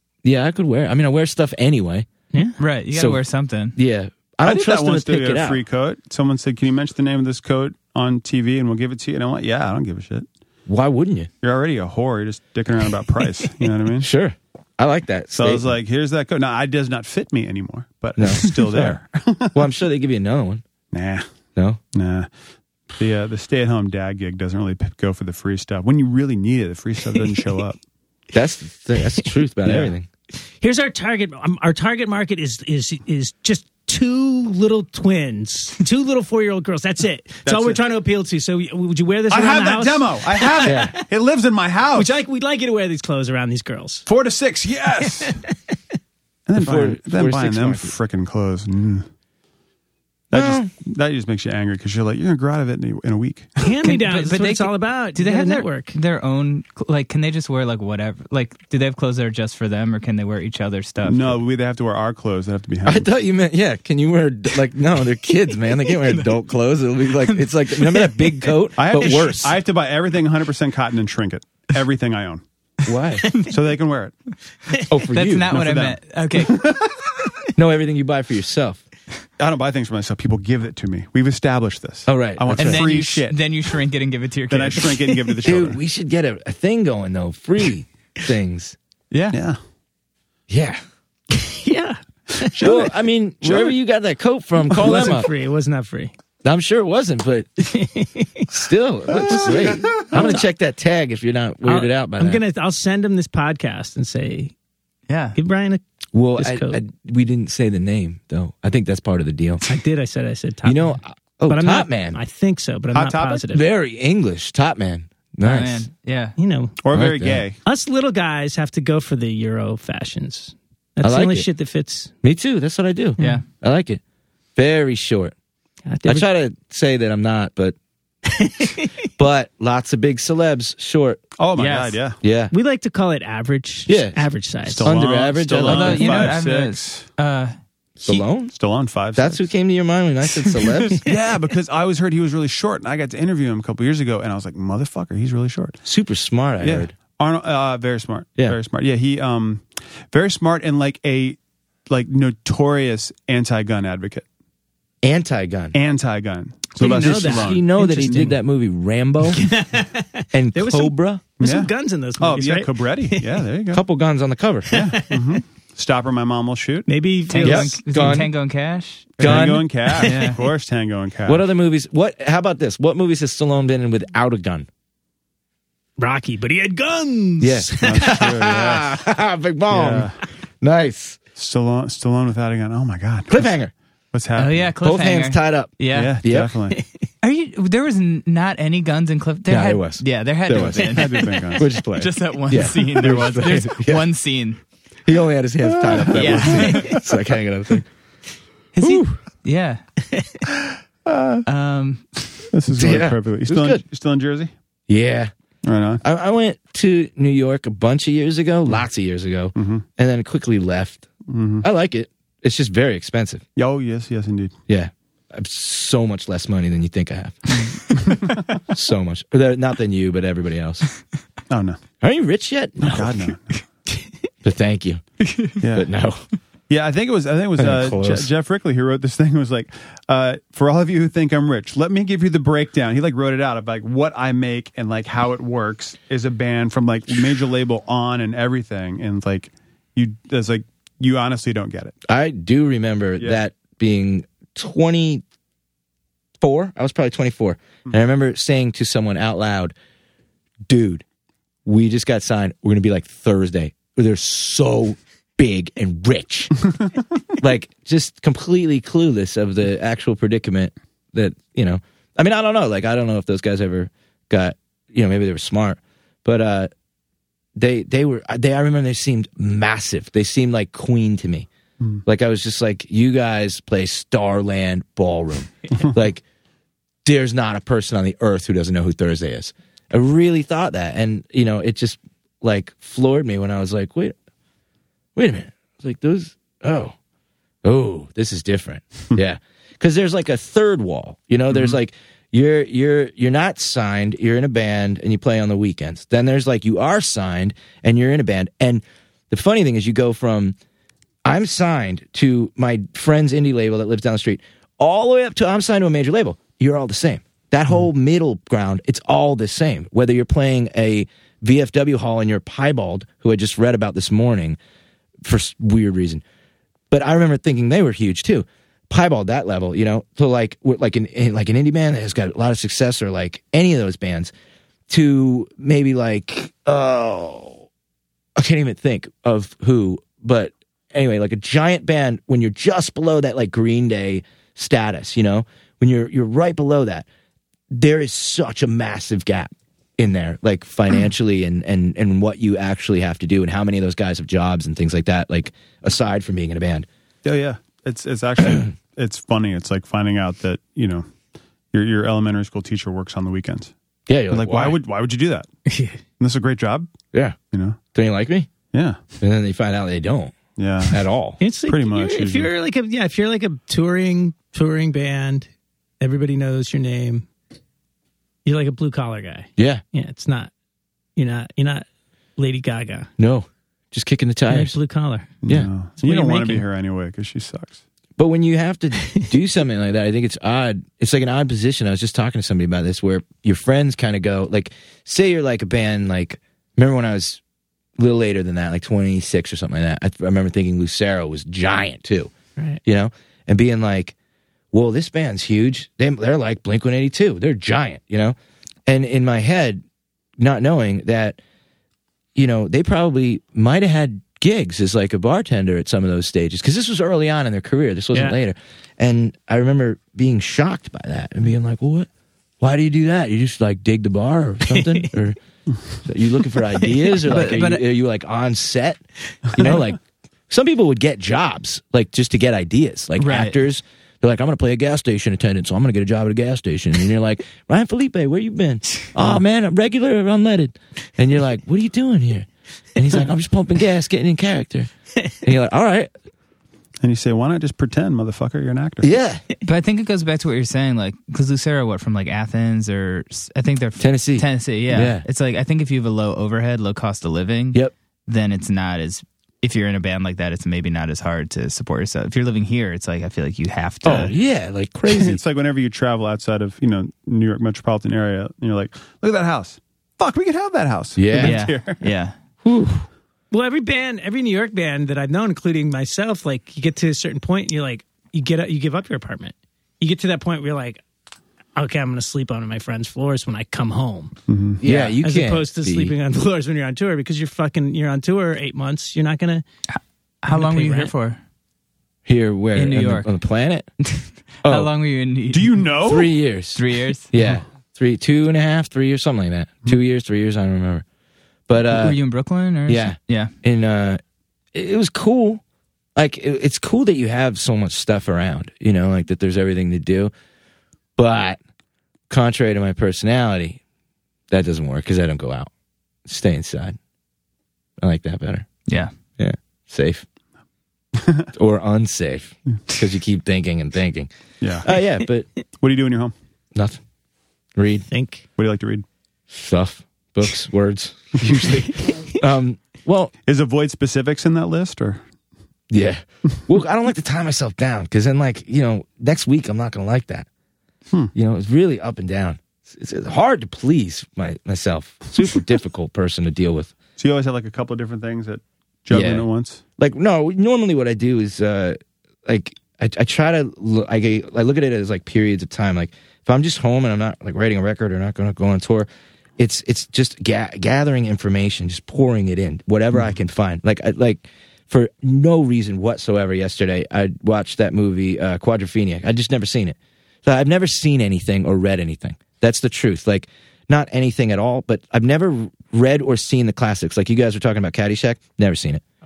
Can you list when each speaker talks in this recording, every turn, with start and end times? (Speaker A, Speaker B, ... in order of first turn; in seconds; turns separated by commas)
Speaker A: 0.2-2.0, Speaker B: 2.6-3.8, Speaker A: 2.9-3.2, Speaker A: 3.7-5.6, Speaker C: 4.4-10.2, Speaker A: 10.7-11.3, Speaker C: 11.4-14.1, Speaker A: 14.0-15.7, Speaker C: 15.3-19.6, Speaker A: 18.2-19.0, Speaker A: 19.5-20.6, Speaker C: 20.9-21.3, Speaker C: 21.9-22.3, Speaker C: 22.9-27.8, Speaker A: 28.3-30.1, Speaker C: 29.6-29.9, Speaker D: 30.6-41.0, Speaker C: 37.4-37.8, Speaker C: 39.3-42.1, Speaker A: 40.6-40.9, Speaker D: 41.9-44.0, Speaker C: 44.0-45.4, Speaker D: 45.0-45.8, Speaker C: 46.5-49.0, Speaker A: 46.5-47.9, Speaker C: 50.3-53.7, Speaker A: 50.3-50.7, Speaker D: 53.6-56.0, Speaker B: 53.8-61.4, Speaker C: 61.0-63.1, Speaker A: 62.9-69.6, Speaker B: 67.2-68.3, Speaker C: 68.8-72.4, Speaker A: 72.8-73.3, Speaker C: 73.4-74.1, Speaker A: 74.9-75.6, Speaker B: 75.1-76.7, Speaker C: 75.5-77.0, Speaker A: 77.5-78.8, Speaker C: 79.4-83.4, Speaker A: 82.0-82.9, Speaker B: 82.5-85.1, Speaker C: 84.5-85.8, Speaker A: 85.4-88.8, Speaker B: 89.1-89.4, Speaker C: 89.3-89.6, Speaker A: 90.5-90.8, Speaker D: 91.3-92.6, Speaker C: 92.5-93.8, Speaker A: 92.6-95.3, Speaker D: 94.7-96.1, Speaker C: 94.8-95.1, Speaker A: 96.4-97.6, Speaker D: 97.6-98.5, Speaker A: 98.5-102.4, Speaker C: 99.2-100.2, Speaker D: 100.1-100.4, Speaker D: 101.6-104.5, Speaker B: 105.1-105.4, Speaker D: 105.3-105.8, Speaker A: 106.1-109.6, Speaker D: 106.3-106.8, Speaker D: 109.6-113.6, Speaker A: 110.6-112.2, Speaker C: 112.9-113.4, Speaker A: 113.5-115.9, Speaker B: 115.4-116.3, Speaker D: 116.4-116.8, Speaker C: 116.8-117.6, Speaker A: 116.9-117.4, Speaker D: 117.6-122.1, Speaker A: 121.0-121.5, Speaker A: 122.2-124.0, Speaker D: 123.2-123.4, Speaker B: 123.2-123.4, Speaker A: 124.5-125.3, Speaker D: 125.9-126.3, Speaker A: 126.0-127.7, Speaker D: 128.3-128.9, Speaker A: 129.2-131.2, Speaker C: 131.4-132.2, Speaker B: 131.5-132.0, Speaker A: 132.2-132.5, Speaker D: 132.5-134.9, Speaker A: 133.9-134.3, Speaker C: 134.7-137.0, Speaker A: 134.8-136.4, Speaker B: 135.6-137.6, Speaker A: 138.0-138.5, Speaker C: 138.5-139.5, Speaker A: 139.1-141.0, Speaker C: 141.0-145.8, Speaker A: 145.8-146.9, Speaker C: 146.6-154.2, Speaker A: 155.0-155.8, Speaker C: 155.7-158.3, Speaker D: 156.8-158.3, Speaker A: 156.8-159.5, Speaker D: 159.2-163.4, Speaker A: 160.3-161.2, Speaker C: 161.4-163.8, Speaker A: 163.7-164.7, Speaker D: 164.7-165.4, Speaker C: 164.7-166.9, Speaker D: 166.9-167.8, Speaker B: 167.3-170.4, Speaker A: 167.4-168.3, Speaker C: 169.2-171.4, Speaker A: 169.2-169.7, Speaker A: 171.2-174.7, Speaker D: 176.0-178.3, Speaker A: 177.4-181.2, Speaker C: 177.8-179.0, Speaker C: 179.7-180.2, Speaker C: 181.3-183.5, Speaker A: 183.3-183.7, Speaker C: 184.1-184.7, Speaker B: 184.3-186.2, Speaker A: 184.8-186.5, Speaker C: 185.9-186.8, Speaker B: 187.2-194.6, Speaker A: 189.5-194.1, Speaker C: 190.5-191.7, Speaker A: 195.1-197.9, Speaker C: 195.7-197.0, Speaker B: 195.9-197.1, Speaker B: 198.7-199.8, Speaker A: 198.8-199.1, Speaker D: 200.1-200.4, Speaker C: 201.1-201.4, Speaker B: 201.4-202.4, Speaker C: 202.5-204.5, Speaker A: 202.7-203.8, Speaker A: 204.9-205.3, Speaker C: 205.6-206.0, Speaker A: 206.0-211.1, Speaker C: 209.5-209.8, Speaker C: 211.3-211.7, Speaker A: 211.6-213.4, Speaker C: 213.6-214.5, Speaker A: 214.7-217.7, Speaker C: 217.9-218.4, Speaker A: 218.7-220.8, Speaker C: 221.5-221.8, Speaker A: 222.0-223.3, Speaker C: 222.8-223.6, Speaker A: 224.4-225.0, Speaker B: 225.2-225.6, Speaker C: 225.6-225.9, Speaker A: 225.7-226.2, Speaker C: 226.7-241.9, Speaker A: 227.6-228.3, Speaker A: 242.1-245.2, Speaker A: 246.4-249.7, Speaker A: 250.7-251.0, Speaker A: 251.6-256.5, Speaker A: 257.4-266.7, Speaker A: 267.6-271.5, Speaker A: 272.0-276.2, Speaker A: 277.0-284.1, Speaker A: 285.1-286.9, Speaker A: 287.6-300.5, Speaker C: 291.5-291.8, Speaker A: 301.2-314.6, Speaker A: 315.2-316.2, Speaker A: 316.9-324.3, Speaker A: 324.9-327.6, Speaker A: 328.4-337.1, Speaker A: 337.7-346.9, Speaker C: 347.2-351.1, Speaker C: 351.7-353.7, Speaker A: 354.1-354.8, Speaker C: 354.3-355.5, Speaker D: 355.7-355.9, Speaker C: 356.2-356.9, Speaker C: 357.5-357.8, Speaker A: 357.9-358.5, Speaker C: 358.7-359.0, Speaker A: 359.2-360.4, Speaker C: 360.6-361.0, Speaker A: 360.9-361.4, Speaker D: 361.4-365.5, Speaker C: 361.7-362.5, Speaker D: 366.0-367.3, Speaker D: 368.4-370.5, Speaker A: 369.6-369.8, Speaker D: 371.1-371.8, Speaker D: 372.4-373.1, Speaker A: 373.2-374.7, Speaker D: 374.5-375.3, Speaker C: 375.4-377.8, Speaker D: 376.0-376.6, Speaker A: 378.2-387.4, Speaker A: 388.0-392.3, Speaker A: 392.8-394.1, Speaker A: 394.7-398.3, Speaker A: 398.9-399.8, Speaker A: 400.4-401.4, Speaker A: 402.3-412.1, Speaker A: 412.6-415.4, Speaker D: 414.7-415.1, Speaker A: 416.0-419.0, Speaker B: 417.2-417.8, Speaker A: 419.5-436.1, Speaker B: 423.2-423.6, Speaker C: 437.0-439.1, Speaker A: 439.0-439.4, Speaker B: 439.6-454.3, Speaker A: 444.0-445.2, Speaker A: 454.0-455.4, Speaker C: 455.1-462.0, Speaker A: 461.1-461.6, Speaker B: 461.4-462.3, Speaker A: 462.6-463.1, Speaker D: 463.5-471.0, Speaker D: 471.8-479.6, Speaker C: 474.5-474.8, Speaker A: 474.8-476.1, Speaker B: 479.9-481.4, Speaker D: 480.5-481.1, Speaker A: 482.2-483.9, Speaker B: 482.7-483.3, Speaker B: 484.0-485.9, Speaker A: 484.6-484.9, Speaker C: 485.5-486.3, Speaker A: 486.0-491.0, Speaker B: 486.7-487.3, Speaker A: 491.7-492.2, Speaker B: 491.9-493.5, Speaker A: 492.9-494.2, Speaker A: 494.7-495.6, Speaker A: 496.1-500.3, Speaker A: 501.2-501.6, Speaker A: 502.3-503.8, Speaker A: 504.5-505.7, Speaker A: 506.2-507.0, Speaker A: 508.0-508.7, Speaker A: 509.4-510.2, Speaker C: 511.1-511.5, Speaker A: 511.5-514.3, Speaker C: 514.6-514.9, Speaker A: 514.8-515.5, Speaker C: 515.8-516.3, Speaker A: 517.8-518.0, Speaker D: 518.1-518.4, Speaker C: 518.6-519.0, Speaker A: 519.5-523.3, Speaker C: 523.5-525.2, Speaker A: 525.9-530.5, Speaker A: 531.3-536.9, Speaker C: 537.2-539.8, Speaker A: 539.1-539.5, Speaker A: 540.0-549.1, Speaker A: 549.6-569.0